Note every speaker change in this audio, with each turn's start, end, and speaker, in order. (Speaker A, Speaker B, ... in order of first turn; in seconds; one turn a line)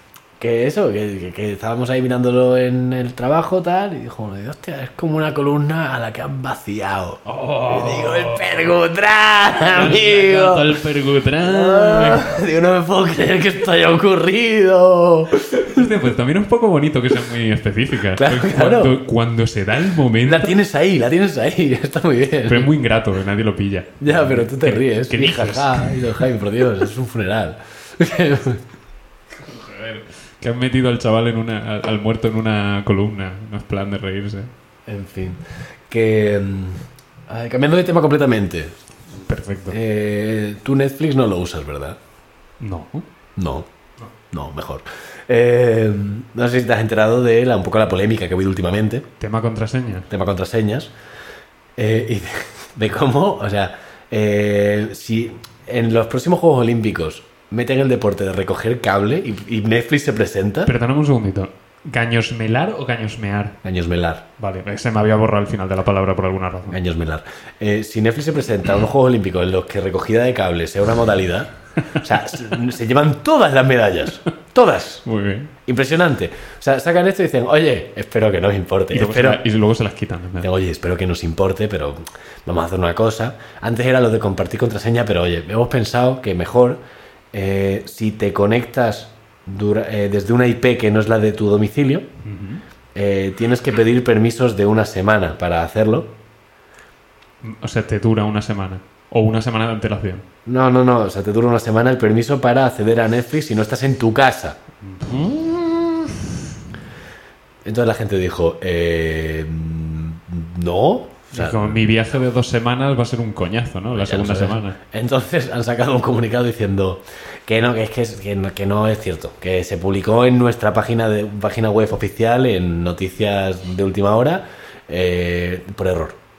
Speaker A: 0.4-10.7
Speaker B: 7.2-8.6
Speaker B: 9.6-12.2
Speaker A: 11.4-16.0
Speaker B: 15.6-20.6
Speaker A: 18.1-18.9
Speaker A: 20.2-22.7
Speaker B: 22.4-26.0
Speaker A: 24.0-28.6
Speaker B: 29.4-34.5
Speaker A: 34.9-38.7
Speaker B: 39.2-39.8
Speaker A: 39.7-42.0
Speaker B: 42.6-43.0
Speaker A: 43.4-43.7
Speaker A: 44.3-49.0
Speaker B: 49.2-50.1
Speaker A: 50.1-50.9
Speaker A: 51.8-60.7
Speaker B: 60.6-63.6
Speaker A: 63.6-64.2
Speaker B: 64.4-66.8
Speaker A: 66.7-75.0
Speaker B: 75.0-75.5
Speaker A: 75.7-79.4
Speaker B: 78.9-80.5
Speaker A: 80.4-86.8
Speaker A: 87.3-92.0
Speaker B: 92.2-92.6
Speaker A: 92.9-96.1
Speaker B: 97.4-100.2
Speaker A: 100.5-104.6
Speaker B: 104.8-106.1
Speaker A: 107.6-111.8
Speaker B: 111.3-114.8
Speaker A: 113.9-126.2